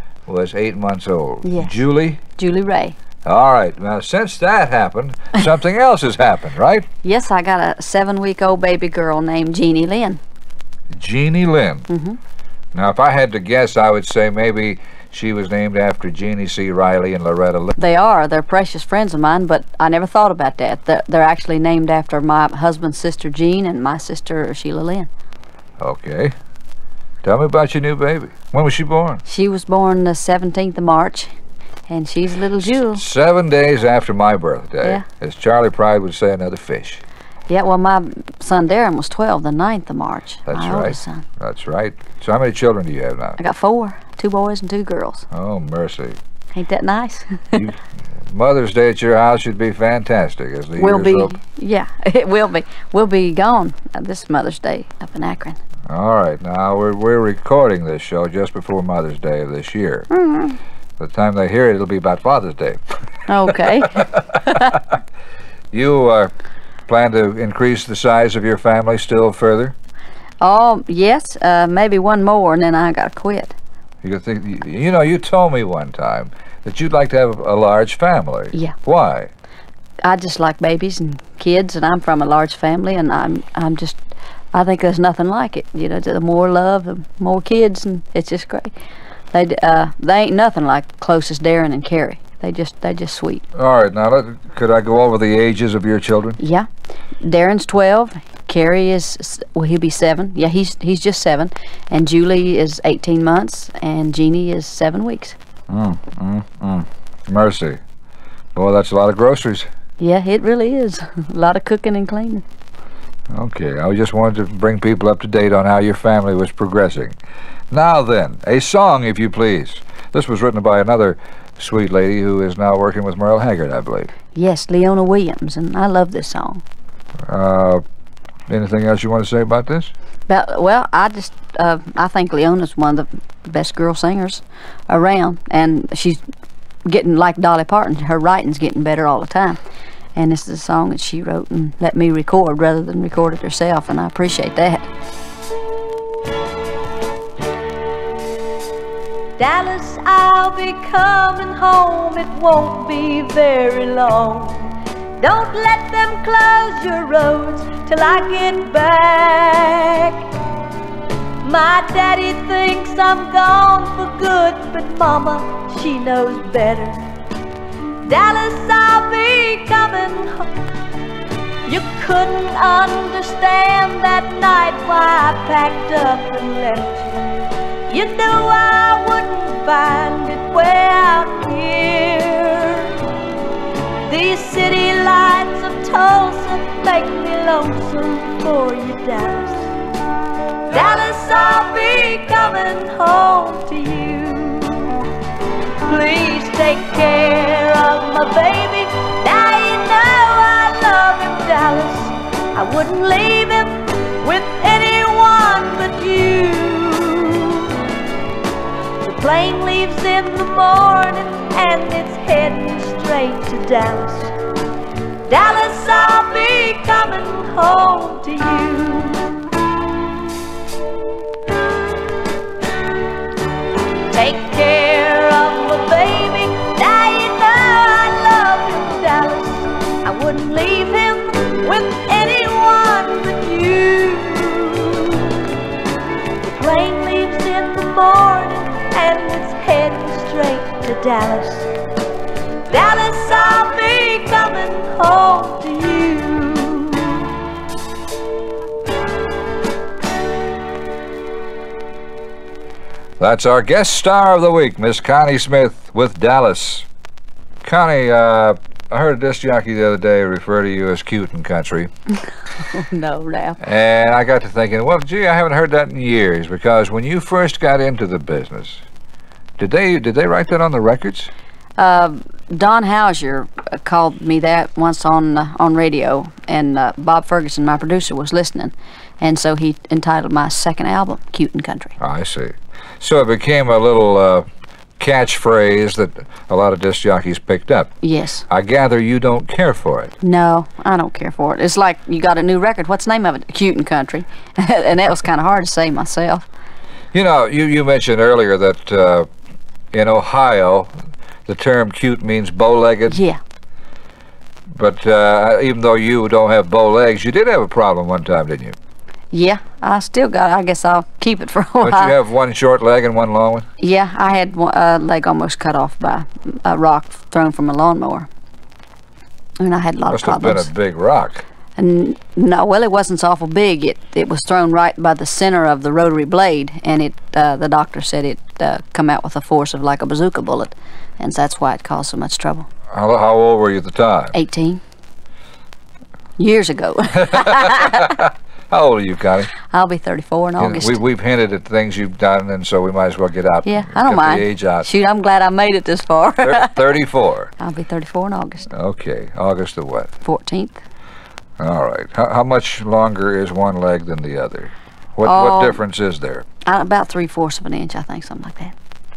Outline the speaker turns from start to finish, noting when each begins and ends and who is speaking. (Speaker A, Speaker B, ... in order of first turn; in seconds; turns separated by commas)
Speaker A: 0.3-2.2, Speaker B: 1.4-1.8, Speaker B: 2.4-3.0, Speaker A: 3.2-6.9, Speaker B: 7.0-10.2, Speaker A: 10.9-11.9, Speaker B: 11.9-12.2, Speaker A: 12.7-17.8, Speaker B: 17.8-25.1, Speaker A: 25.8-26.4, Speaker A: 27.2-29.2, Speaker B: 29.3-31.3, Speaker B: 31.9-33.0, Speaker A: 32.6-37.0, Speaker B: 37.5-41.2, Speaker A: 40.5-43.4, Speaker B: 43.4-45.3, Speaker A: 45.3-46.2, Speaker B: 46.5-47.7, Speaker A: 48.3-51.3, Speaker B: 50.8-55.6, Speaker A: 55.9-60.1, Speaker B: 60.1-60.6, Speaker A: 61.0-62.8, Speaker B: 63.3-64.8, Speaker A: 65.7-66.3, Speaker A: 66.9-69.8, Speaker B: 70.4-73.5, Speaker A: 74.0-79.3, Speaker B: 80.0-84.0, Speaker B: 84.5-88.7, Speaker B: 89.3-93.5, Speaker A: 93.5-96.4, Speaker B: 96.4-96.7, Speaker B: 97.2-105.4, Speaker A: 105.7-107.8, Speaker A: 108.5-109.7, Speaker B: 110.0-112.4, Speaker A: 113.3-117.2, Speaker A: 117.7-124.1, Speaker B: 124.3-126.6, Speaker A: 127.2-127.8, Speaker A: 128.5-129.9, Speaker B: 130.3-136.2, Speaker B: 136.9-139.6, Speaker B: 140.2-144.9, Speaker C: 149.4-160.2, Speaker C: 161.4-167.0, Speaker C: 168.1-170.5, Speaker C: 171.7-177.2, Speaker C: 177.9-183.0, Speaker C: 184.1-189.7, Speaker C: 190.7-195.0, Speaker C: 195.9-207.7, Speaker C: 209.0-214.3, Speaker C: 215.3-219.3, Speaker C: 224.1-235.3, Speaker C: 236.4-241.7, Speaker C: 242.7-247.3, Speaker A: 253.2-256.9, Speaker A: 257.6-261.9, Speaker B: 262.7-263.6, Speaker A: 263.6-268.8, Speaker A: 269.6-271.3, Speaker B: 271.8-282.0, Speaker A: 282.0-284.5, Speaker A: 285.0-287.9, Speaker B: 288.0-288.5, Speaker A: 288.5-290.1, Speaker B: 290.2-296.4, Speaker A: 297.1-299.3, Speaker A: 299.9-300.9, Speaker A: 301.5-303.2, Speaker B: 303.1-303.4, Speaker A: 304.7-308.8, Speaker B: 309.3-312.1, Speaker A: 311.8-313.7, Speaker B: 313.8-318.3, Speaker B: 319.6-320.7, Speaker A: 320.1-321.4, Speaker B: 321.8-332.7, Speaker A: 332.9-334.4, Speaker B: 334.3-334.8, Speaker B: 336.4-338.2, Speaker A: 337.2-339.5, Speaker B: 339.7-341.0, Speaker A: 340.6-344.9, Speaker B: 343.6-346.7, Speaker A: 346.4-347.5, Speaker B: 347.6-348.7, Speaker A: 348.7-350.1, Speaker B: 350.2-350.8, Speaker A: 351.6-356.5, Speaker B: 355.2-355.8, Speaker B: 356.6-358.8